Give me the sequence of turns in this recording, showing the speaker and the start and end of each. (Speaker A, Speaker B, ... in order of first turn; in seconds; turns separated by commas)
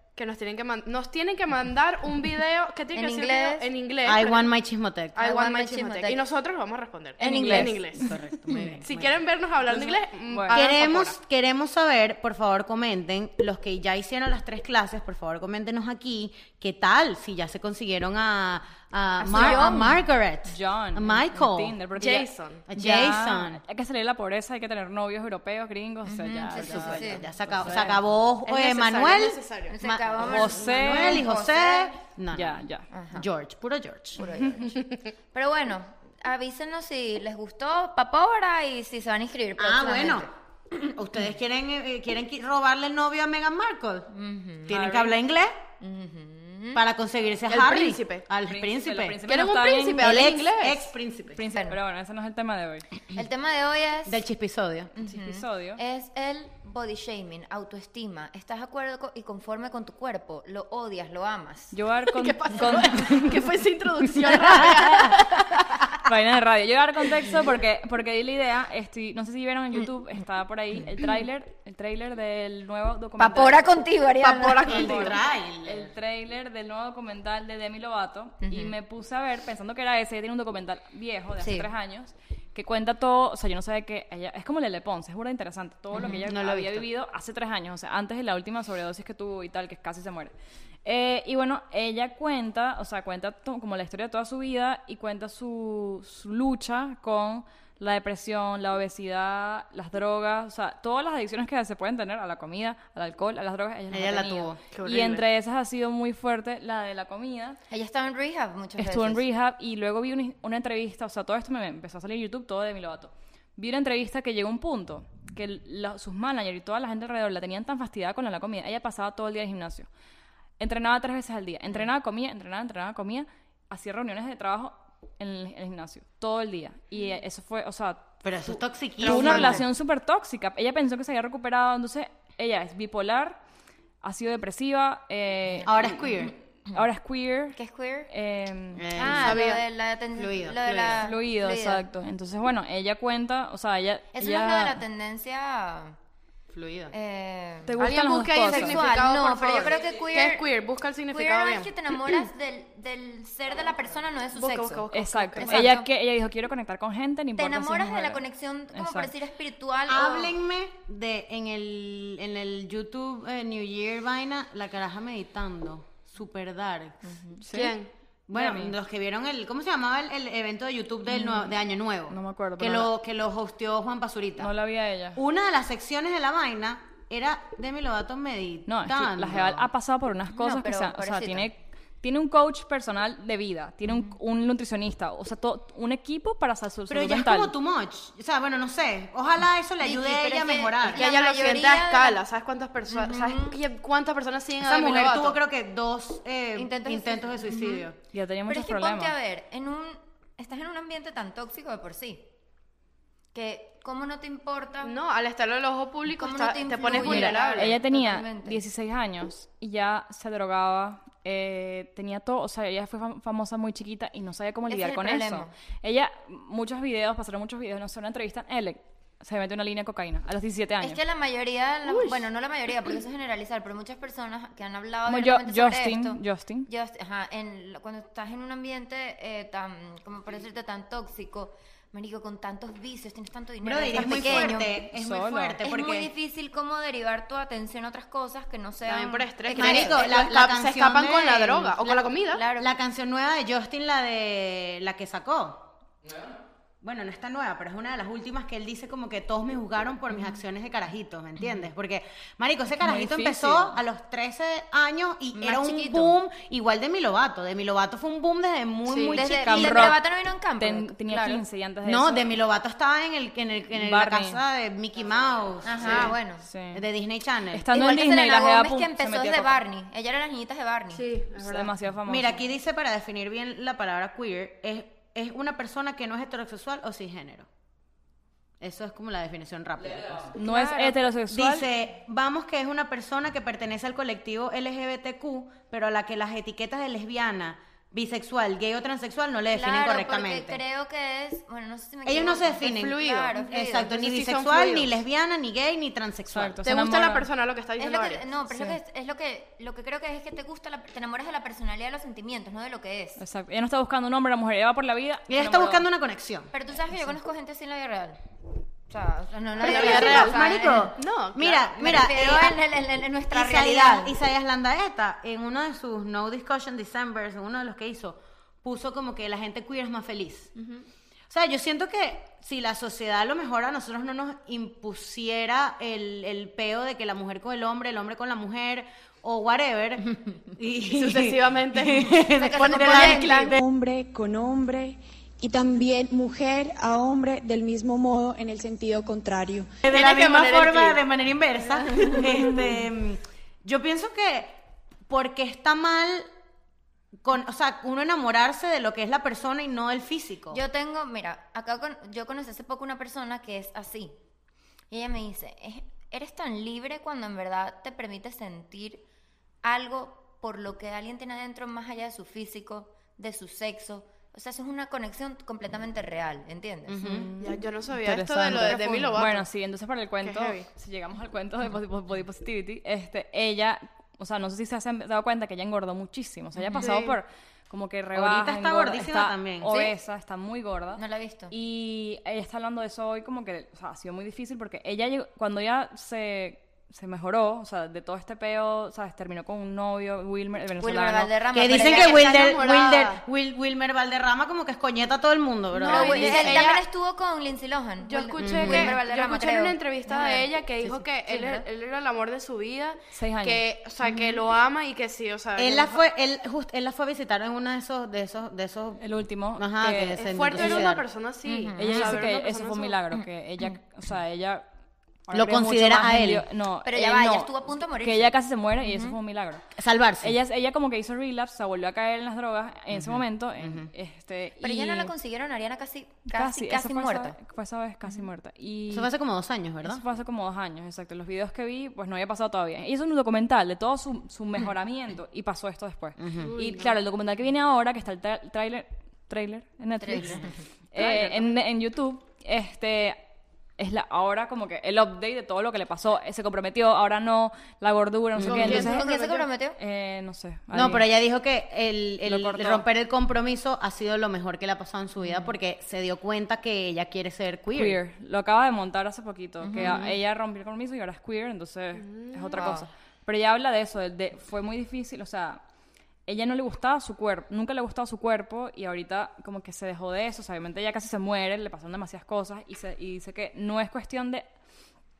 Speaker A: 0.1-4.5, Speaker B: 2.9-3.7, Speaker C: 4.0-5.2, Speaker A: 5.1-8.1, Speaker B: 5.2-6.2, Speaker B: 7.2-7.8, Speaker D: 7.3-7.7, Speaker C: 8.0-9.2, Speaker B: 8.5-8.8, Speaker A: 8.8-11.1, Speaker D: 9.7-10.6, Speaker C: 10.5-21.8, Speaker B: 19.2-20.0, Speaker D: 19.4-19.8, Speaker D: 20.4-28.0, Speaker A: 22.0-22.6, Speaker C: 22.7-23.6, Speaker B: 26.1-27.3, Speaker C: 26.5-32.6, Speaker A: 28.4-29.8, Speaker B: 29.7-32.0, Speaker D: 30.2-31.2, Speaker D: 32.3-32.9, Speaker B: 32.9-33.3, Speaker C: 33.1-34.3, Speaker B: 34.2-40.3, Speaker C: 39.6-44.1, Speaker B: 44.1-44.8, Speaker C: 44.7-45.6, Speaker D: 44.7-45.2, Speaker B: 45.8-46.8, Speaker C: 46.7-49.2, Speaker A: 47.5-48.2, Speaker D: 48.4-50.3, Speaker A: 49.2-50.9, Speaker C: 50.0-51.4, Speaker D: 51.3-52.9, Speaker B: 51.5-51.8, Speaker B: 53.1-54.2, Speaker C: 54.0-54.9, Speaker B: 55.0-61.8, Speaker D: 55.0-55.8, Speaker D: 61.7-63.5, Speaker A: 62.1-65.8, Speaker D: 66.0-73.6, Speaker B: 73.2-75.1, Speaker A: 74.2-75.1, Speaker C: 74.6-75.9, Speaker D: 74.7-90.3, Speaker B: 78.4-78.7, Speaker B: 81.4-81.7, Speaker B: 85.9-86.2, Speaker C: 86.2-86.9, Speaker D: 90.8-107.6, Speaker C: 103.9-104.6, Speaker A: 104.7-105.2, Speaker B: 107.7-109.2, Speaker D: 108.8-119.9, Speaker D: 120.6-133.4, Speaker C: 128.2-129.7, Speaker A: 129.0-129.6, Speaker D: 134.0-139.0, Speaker C: 135.6-136.3, Speaker B: 137.5-138.1, Speaker C: 138.8-139.4, Speaker B: 138.9-141.8, Speaker A: 139.1-139.6, Speaker C: 140.1-141.0, Speaker D: 141.0-144.8, Speaker B: 144.1-145.9, Speaker C: 146.5-146.9, Speaker B: 146.9-147.8, Speaker D: 147.7-148.8, Speaker A: 147.8-152.2, Speaker B: 148.5-150.5, Speaker B: 151.1-155.9, Speaker A: 154.3-155.7, Speaker D: 154.9-158.2, Speaker B: 157.4-160.4, Speaker D: 158.7-159.1, Speaker C: 159.9-167.1, Speaker B: 167.0-167.4, Speaker D: 167.4-167.7, Speaker A: 167.5-167.9, Speaker C: 168.3-174.5, Speaker D: 168.3-168.8, Speaker D: 171.1-172.9, Speaker D: 174.4-175.2, Speaker C: 175.1-179.7, Speaker D: 178.7-187.5, Speaker B: 180.3-181.5, Speaker B: 183.9-184.1, Speaker C: 186.9-191.0, Speaker B: 189.8-192.2, Speaker A: 190.9-195.4, Speaker B: 192.9-193.6, Speaker C: 194.6-198.0, Speaker B: 196.5-197.9, Speaker D: 198.1-199.1, Speaker B: 198.5-202.2, Speaker B: 203.3-204.9, Speaker A: 204.8-207.8, Speaker B: 206.1-208.6, Speaker D: 206.9-221.0, Speaker B: 214.7-215.5, Speaker B: 220.8-234.7, Speaker A: 221.9-222.2, Speaker D: 225.1-226.7, Speaker C: 233.6-236.1, Speaker D: 234.0-235.6, Speaker B: 235.6-240.2, Speaker A: 238.8-242.4, Speaker C: 239.6-245.6, Speaker B: 242.3-242.7, Speaker C: 246.8-259.9, Speaker D: 252.8-253.8, Speaker B: 255.3-256.2, Speaker A: 258.9-259.2, Speaker B: 259.1-261.4, Speaker D: 259.2-260.0, Speaker D: 260.6-262.3, Speaker C: 261.8-266.1, Speaker D: 263.7-264.4, Speaker B: 265.6-266.4, Speaker A: 265.8-266.1, Speaker D: 266.4-266.8, Speaker C: 266.7-267.7, Speaker D: 267.5-269.6, Speaker B: 267.7-271.0, Speaker A: 270.9-271.7, Speaker D: 271.4-272.4, Speaker C: 272.1-277.5, Speaker C: 278.6-280.3, Speaker D: 280.3-281.7, Speaker B: 280.4-281.0, Speaker C: 281.3-290.6, Speaker B: 289.5-293.9, Speaker C: 292.0-296.6, Speaker A: 292.8-294.9, Speaker D: 296.2-297.3, Speaker A: 296.6-298.3, Speaker B: 297.8-303.2, Speaker D: 298.5-298.8, Speaker D: 303.2-305.9, Speaker C: 305.3-306.5, Speaker B: 306.5-308.2, Speaker B: 308.9-310.9, Speaker A: 309.6-311.7, Speaker C: 309.6-312.6, Speaker B: 311.7-314.1, Speaker C: 313.3-320.5, Speaker B: 320.6-320.8, Speaker C: 321.3-333.3, Speaker A: 330.9-333.6, Speaker B: 332.4-333.6, Speaker E: 333.5-339.7, Speaker C: 339.8-344.6, Speaker A: 339.9-341.0, Speaker A: 341.9-342.2, Speaker C: 345.1-346.3, Speaker C: 347.2-350.6, Speaker B: 350.5-354.1, Speaker B: 354.9-359.0, Speaker B: 359.6-367.0, Speaker C: 366.9-367.3, Speaker D: 367.0-391.3, Speaker A: 367.4-369.4, Speaker A: 370.2-370.6, Speaker A: 376.8-377.2, Speaker C: 378.1-379.7, Speaker B: 379.7-380.0, Speaker B: 380.9-381.5, Speaker B: 390.8-392.5, Speaker C: 391.5-396.7, Speaker A: 391.7-393.2, Speaker B: 395.8-400.6, Speaker A: 395.8-396.8, Speaker A: 398.0-406.0, Speaker C: 398.4-399.0, Speaker B: 401.2-401.6, Speaker D: 403.1-403.6, Speaker C: 405.6-409.0, Speaker D: 409.0-410.9, Speaker C: 409.6-411.0, Speaker A: 410.1-413.0, Speaker B: 411.5-412.1, Speaker D: 411.7-414.6, Speaker B: 413.1-413.7, Speaker D: 415.3-419.6, Speaker C: 415.3-416.4, Speaker B: 416.8-419.2, Speaker C: 419.8-420.4, Speaker D: 420.2-425.1, Speaker C: 422.9-423.9, Speaker B: 424.6-427.4, Speaker D: 426.3-429.1, Speaker C: 428.9-430.0, Speaker D: 429.8-443.2, Speaker C: 436.2-436.5, Speaker A: 436.4-437.0, Speaker B: 440.0-440.6, Speaker C: 440.1-440.4, Speaker A: 440.9-441.5, Speaker D: 443.8-449.1, Speaker C: 448.4-448.8, Speaker A: 448.4-449.5, Speaker B: 448.5-449.8, Speaker D: 449.7-451.1, Speaker C: 450.7-458.0, Speaker D: 452.2-452.8, Speaker B: 455.2-455.5, Speaker D: 457.7-465.6, Speaker B: 459.6-460.2, Speaker A: 462.0-462.7, Speaker B: 462.5-462.9, Speaker D: 466.3-474.4